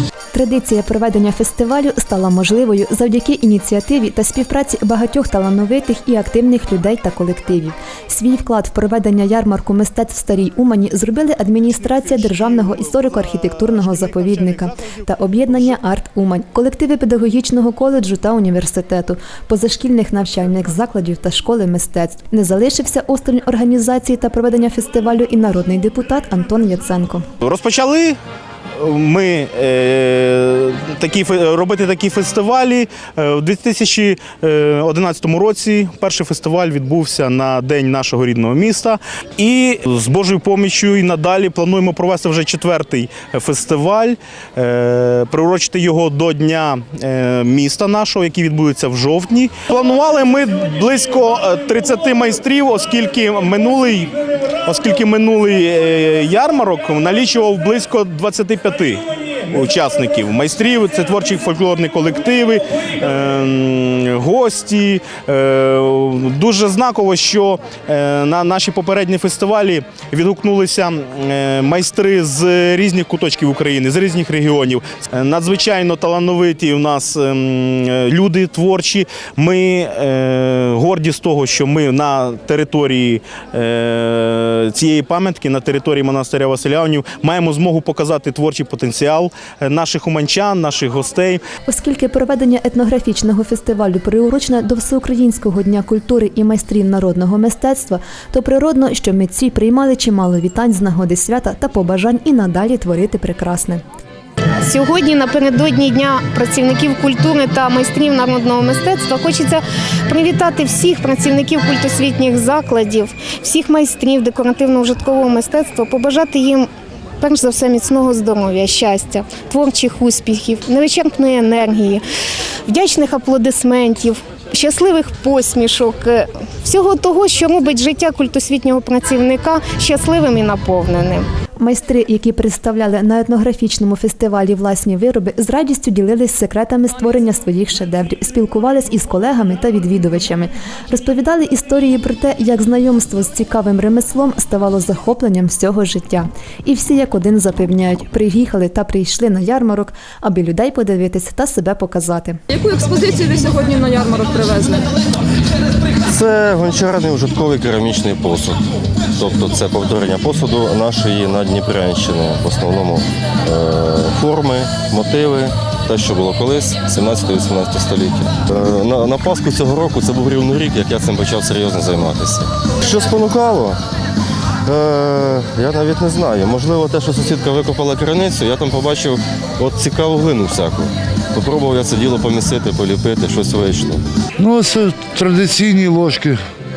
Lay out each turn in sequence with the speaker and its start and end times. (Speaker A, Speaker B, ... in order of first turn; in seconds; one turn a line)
Speaker A: 0.3-27.2
Speaker B: 27.4-28.2
Speaker B: 28.8-54.1
Speaker B: 54.6-91.4
Speaker A: 91.7-103.8
Speaker C: 104.6-116.7
Speaker C: 117.2-122.0
Speaker C: 122.7-131.2
Speaker A: 131.6-152.4
Speaker D: 152.5-154.8
Speaker E: 156.1-158.6
Speaker E: 159.2-173.8
Speaker E: 174.7-184.0
Speaker F: 184.4-186.4